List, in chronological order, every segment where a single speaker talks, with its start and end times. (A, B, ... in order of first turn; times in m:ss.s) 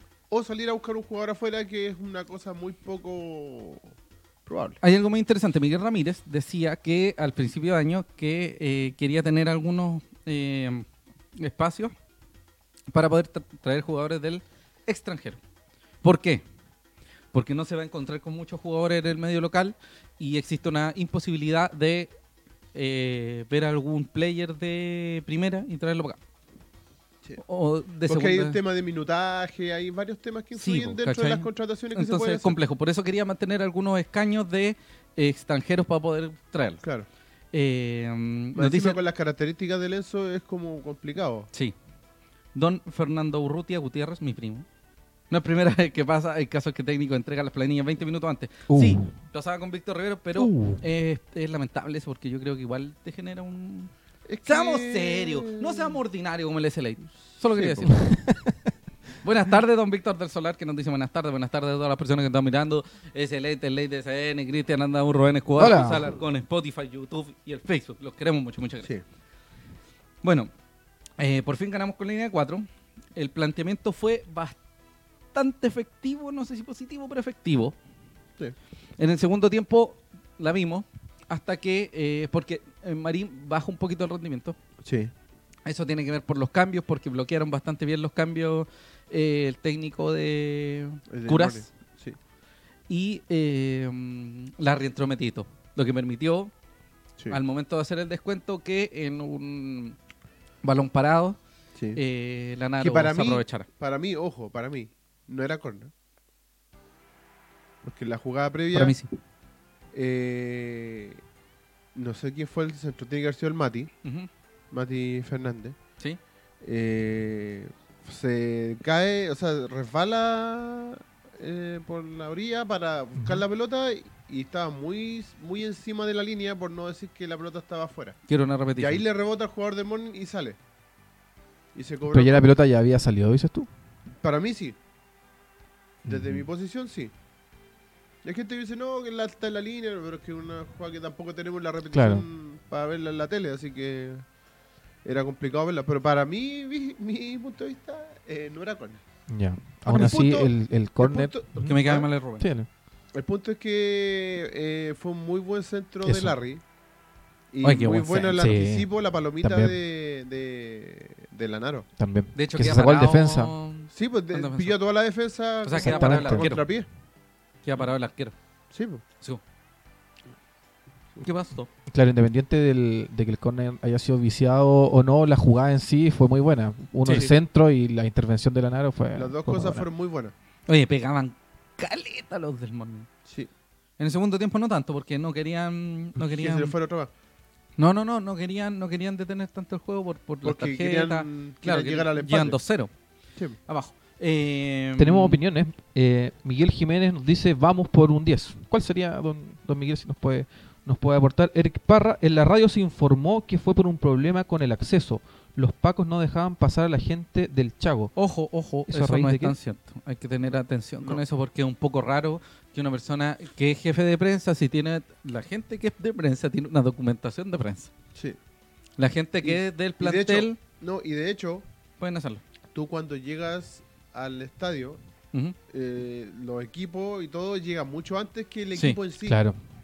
0:00.3-0:03.9 A
0:04.5-0:04.8 A
0:04.8-0:11.9 B
0:12.9-0:15.4 B
0:16.0-0:16.4 B
0:17.3-0:22.1 B
0:22.7-0:26.2 B
0:27.4-0:28.6 B
0:28.1-0:32.6 A
0:30.6-0:36.8 B
0:36.8-0:37.1 A
0:37.5-0:39.0 B
0:38.6-0:41.5 A
0:42.5-0:44.7 B
0:45.3-0:53.9 B
0:48.7-0:49.1 C
0:50.4-0:50.8 C
0:54.3-0:56.0 A
0:54.5-0:58.0 B
0:57.4-0:58.0 A
0:57.9-0:58.7 C
0:59.2-1:08.9 B
1:05.6-1:06.1 C
1:10.2-1:10.5 B
1:11.2-1:14.6 B
1:15.3-1:17.8 B
1:19.0-1:24.6 B
1:24.8-1:25.1 A
1:25.7-1:31.7 B
1:31.1-1:32.2 A
1:32.9-1:36.5 B
1:37.3-1:40.0 B
1:40.6-1:41.4 B
1:42.0-1:43.7 B
1:42.8-1:45.9 A
1:47.8-1:49.0 A
1:48.7-1:49.1 B
1:49.9-1:51.2 A
1:52.0-1:53.9 A
1:54.0-1:54.3 B
1:54.7-1:55.8 A
1:56.6-2:08.2 A
2:08.3-2:09.0 B
2:08.8-2:10.6 A
2:11.8-2:12.5 A
2:12.1-2:13.7 C
2:14.2-2:14.8 A
2:16.0-2:16.5 C
2:16.1-2:17.1 A
2:18.2-2:24.3 A
2:21.9-2:22.3 C
2:25.0-2:29.0 A
2:29.3-2:31.8 C
2:29.9-2:32.1 A
2:31.6-2:32.5 B
2:32.4-2:32.7 C
2:33.1-2:36.6 A
2:36.0-2:36.4 C
2:37.5-2:41.9 A
2:37.6-2:38.4 B
2:38.4-2:38.9 C
2:39.4-2:39.8 C
2:42.0-2:43.5 C
2:42.4-2:44.8 B
2:43.9-2:46.9 A
2:45.6-2:46.6 B
2:45.8-2:46.5 C
2:47.6-2:48.3 B
2:48.7-2:49.0 A
2:51.2-2:51.7 B
2:51.9-2:59.9 C
2:59.2-3:00.3 A
3:00.7-3:03.1 B
3:03.2-3:03.5 A
3:04.0-3:06.7 B
3:06.2-3:07.1 A
3:07.8-3:12.9 B
3:10.4-3:12.6 A
3:13.7-3:15.4 B
3:15.0-3:28.1 C
3:28.2-3:37.9 B
3:28.9-3:29.6 C
3:39.0-3:40.6 B
3:39.4-3:41.6 A
3:42.0-3:42.4 B
3:42.7-3:45.0 A
3:45.7-3:49.4 A
3:49.2-3:49.6 C